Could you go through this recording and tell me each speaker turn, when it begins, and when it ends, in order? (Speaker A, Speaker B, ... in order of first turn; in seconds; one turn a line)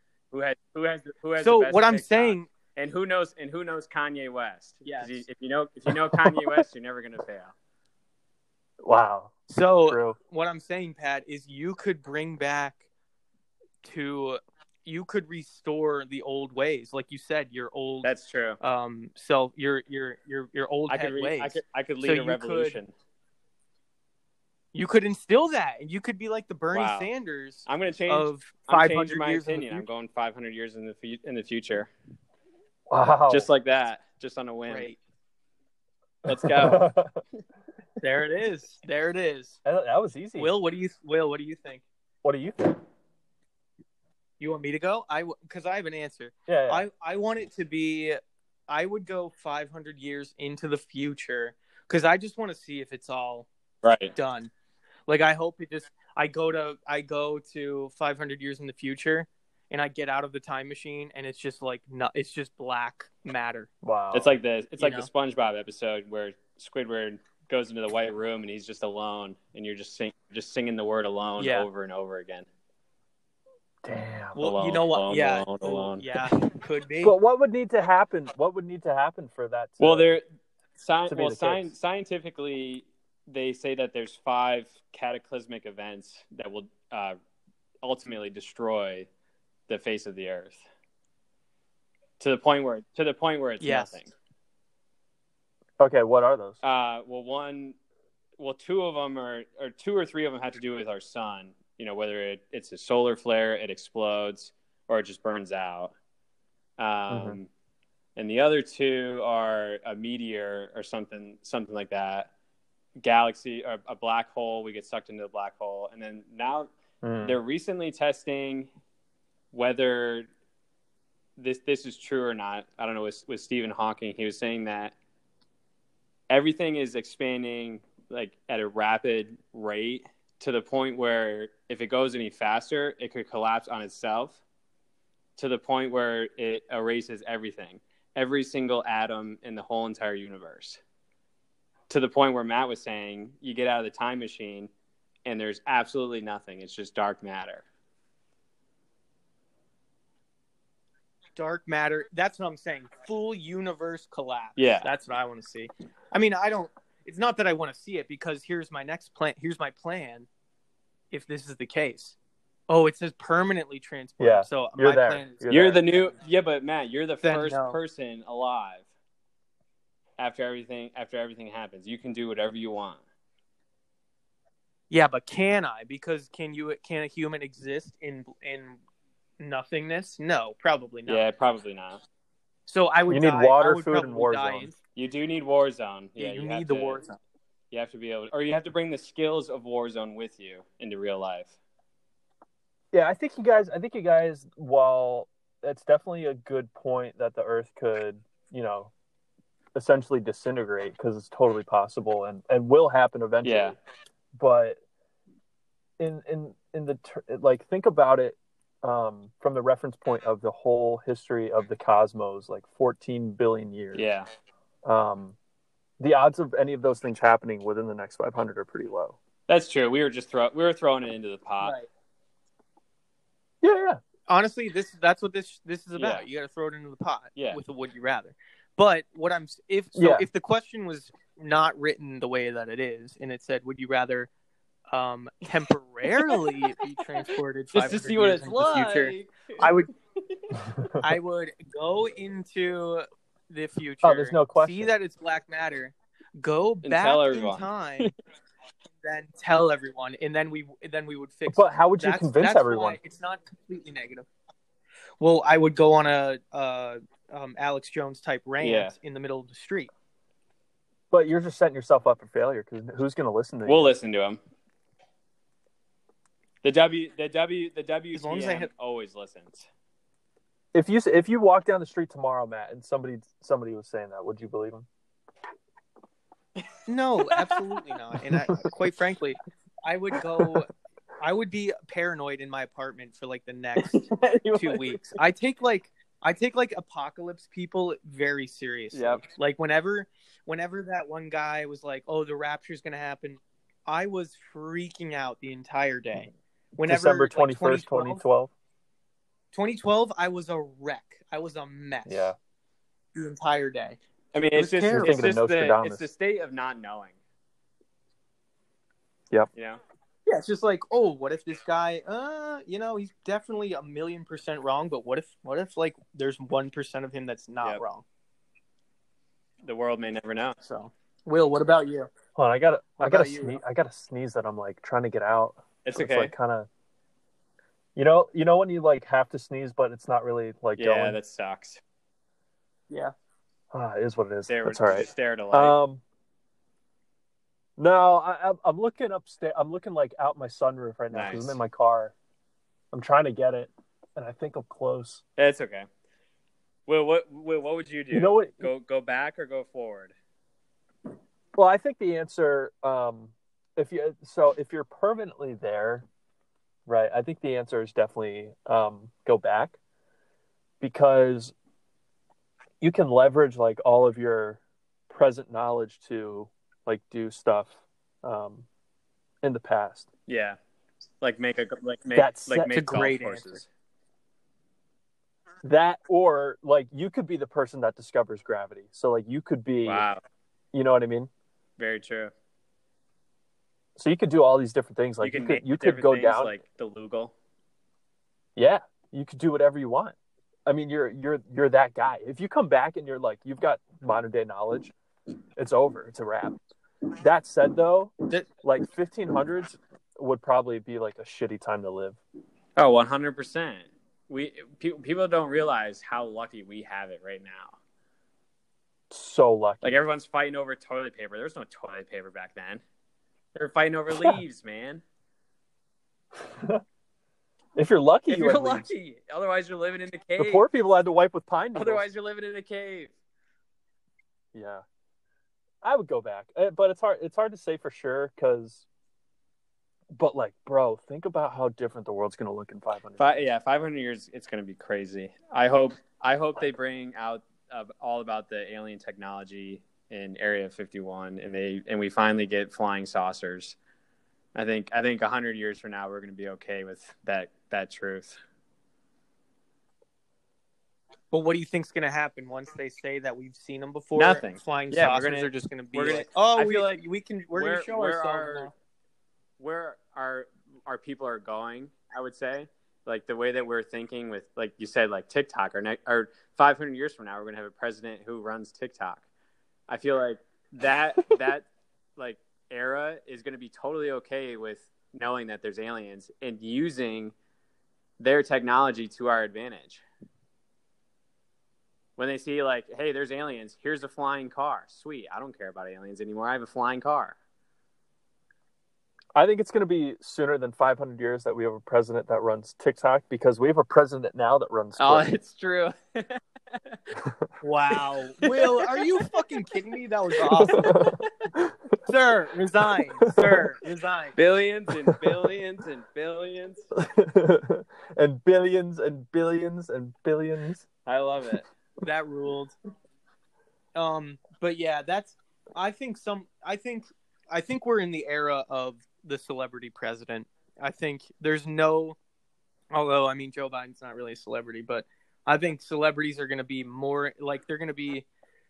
Speaker A: 0.3-7.5
Speaker B: 1.4-2.5
Speaker B: 4.8-5.2
Speaker C: 5.9-6.4
Speaker C: 8.8-9.3
Speaker B: 9.5-12.8
Speaker C: 9.9-10.2
Speaker B: 13.8-22.8
Speaker A: 18.0-18.6
Speaker A: 20.9-22.9
Speaker B: 24.7-29.9
Speaker A: 26.7-27.1
Speaker A: 27.7-31.9
Speaker C: 32.9-33.5
Speaker A: 33.3-34.9
Speaker B: 34.7-35.0
Speaker A: 36.3-36.9
Speaker C: 36.3-37.2
Speaker B: 38.0-39.6
Speaker C: 39.6-40.5
Speaker B: 40.4-41.8
Speaker C: 42.2-42.8
Speaker B: 44.4-53.5
Speaker C: 46.5-46.8
Speaker A: 53.8-54.1
Speaker B: 54.1-54.5
Speaker B: 55.1-63.7
Speaker C: 63.8-64.4
Speaker A: 64.1-72.5
Speaker B: 64.8-65.1
Speaker B: 71.4-71.7
Speaker C: 73.8-74.4
Speaker B: 74.3-77.2
Speaker A: 74.4-76.1
Speaker C: 77.0-80.2
Speaker A: 79.8-80.2
Speaker A: 80.8-87.2
Speaker C: 81.1-81.7
Speaker A: 87.8-89.1
Speaker A: 89.7-90.6
Speaker A: 92.2-94.1
Speaker B: 93.6-94.0
Speaker C: 95.8-96.6
Speaker A: 96.6-97.8
Speaker A: 98.4-105.9
Speaker A: 106.8-107.5
Speaker C: 107.1-107.4
Speaker A: 108.2-112.3
Speaker A: 113.0-116.7
Speaker C: 117.0-117.4
Speaker A: 117.2-118.7
Speaker A: 119.5-120.3
Speaker A: 121.4-125.0
Speaker A: 126.3-134.4
Speaker A: 135.4-140.8
Speaker A: 141.9-144.7
Speaker A: 145.2-147.6
Speaker B: 151.4-160.3
Speaker A: 154.6-154.9
Speaker B: 161.1-162.2
Speaker B: 162.7-165.6
Speaker C: 164.2-165.8
Speaker A: 165.5-168.9
Speaker B: 167.2-167.8
Speaker A: 170.2-173.0
Speaker B: 174.9-178.8
Speaker B: 179.4-181.2
Speaker A: 181.1-182.0
Speaker B: 182.7-184.8
Speaker C: 183.1-184.7
Speaker A: 184.9-187.0
Speaker B: 186.2-187.2
Speaker A: 187.7-191.6
Speaker C: 192.9-198.9
Speaker C: 199.8-203.8
Speaker A: 203.4-203.8
Speaker C: 204.3-204.8
Speaker C: 206.0-214.1
Speaker A: 213.9-214.3
Speaker C: 214.8-215.4
Speaker C: 216.0-219.2
Speaker A: 219.5-221.8
Speaker B: 221.6-221.9
Speaker C: 223.6-224.0
Speaker B: 224.3-234.3
Speaker A: 225.9-226.2
Speaker C: 229.9-230.3
Speaker B: 234.9-239.9
Speaker A: 236.1-236.7
Speaker A: 237.2-240.5
Speaker C: 240.7-241.1
Speaker B: 241.0-248.1
Speaker C: 244.0-244.9
Speaker A: 246.8-248.1
Speaker B: 249.0-254.3
Speaker C: 251.5-253.0
Speaker B: 255.2-259.9
Speaker A: 258.6-258.9
Speaker C: 261.1-263.9
Speaker A: 263.7-264.4
Speaker A: 266.6-269.7
Speaker B: 268.1-268.7
Speaker C: 270.7-274.9
Speaker B: 276.9-298.2
Speaker A: 277.3-277.9
Speaker A: 283.8-285.2
Speaker A: 288.9-289.2
Speaker C: 296.8-298.5
Speaker B: 299.5-302.3
Speaker C: 302.1-302.4
Speaker B: 303.1-304.0
Speaker A: 304.3-307.2
Speaker B: 304.6-305.2
Speaker C: 304.9-306.1
Speaker A: 309.5-309.8
Speaker B: 310.3-318.0
Speaker A: 319.6-320.6
Speaker B: 320.6-322.1
Speaker C: 322.4-326.7
Speaker B: 323.0-323.6
Speaker A: 325.8-326.3
Speaker C: 328.0-331.2
Speaker A: 330.8-331.8
Speaker C: 333.7-336.0
Speaker A: 334.5-335.8
Speaker C: 337.8-342.1
Speaker A: 341.1-341.6
Speaker C: 342.9-345.2
Speaker A: 345.4-345.9
Speaker A: 346.9-350.1
Speaker C: 348.1-348.7
Speaker C: 351.6-356.1
Speaker C: 356.9-359.8
Speaker C: 360.8-361.5
Speaker C: 362.8-368.7
Speaker C: 369.4-370.1
Speaker A: 370.3-370.6
Speaker A: 371.2-373.7
Speaker C: 372.1-372.7
Speaker B: 372.7-373.6
Speaker C: 375.6-380.1
Speaker A: 379.9-380.2
Speaker C: 380.7-381.3
Speaker A: 381.8-382.3
Speaker C: 384.0-386.6
Speaker A: 385.2-387.3
Speaker C: 388.6-394.9
Speaker C: 395.6-396.6
Speaker C: 397.2-402.2
Speaker A: 402.8-407.8
Speaker C: 409.1-409.9
Speaker A: 409.8-412.8
Speaker A: 413.6-415.0
Speaker C: 416.4-416.8
Speaker C: 417.8-418.9
Speaker A: 418.3-420.6
Speaker C: 420.4-422.1
Speaker A: 421.8-423.1
Speaker C: 424.5-424.8
Speaker C: 425.8-428.9
Speaker C: 430.1-433.5
Speaker A: 433.2-443.8
Speaker A: 444.6-448.4
Speaker B: 451.3-458.7
Speaker A: 454.2-457.0
Speaker A: 457.5-458.7
Speaker A: 459.6-469.2
Speaker A: 469.9-477.3
Speaker A: 478.2-480.0
Speaker A: 482.2-487.4
Speaker C: 489.4-495.3
Speaker A: 495.0-497.0
Speaker C: 497.2-497.5
Speaker B: 497.6-501.0
Speaker A: 498.4-499.2
Speaker A: 500.4-501.3
Speaker C: 500.7-501.8
Speaker B: 502.1-504.4
Speaker C: 503.2-503.6
Speaker A: 504.4-506.9
Speaker C: 506.9-510.9
Speaker A: 511.1-511.7
Speaker B: 512.0-512.7
Speaker B: 514.0-522.2
Speaker B: 522.9-528.3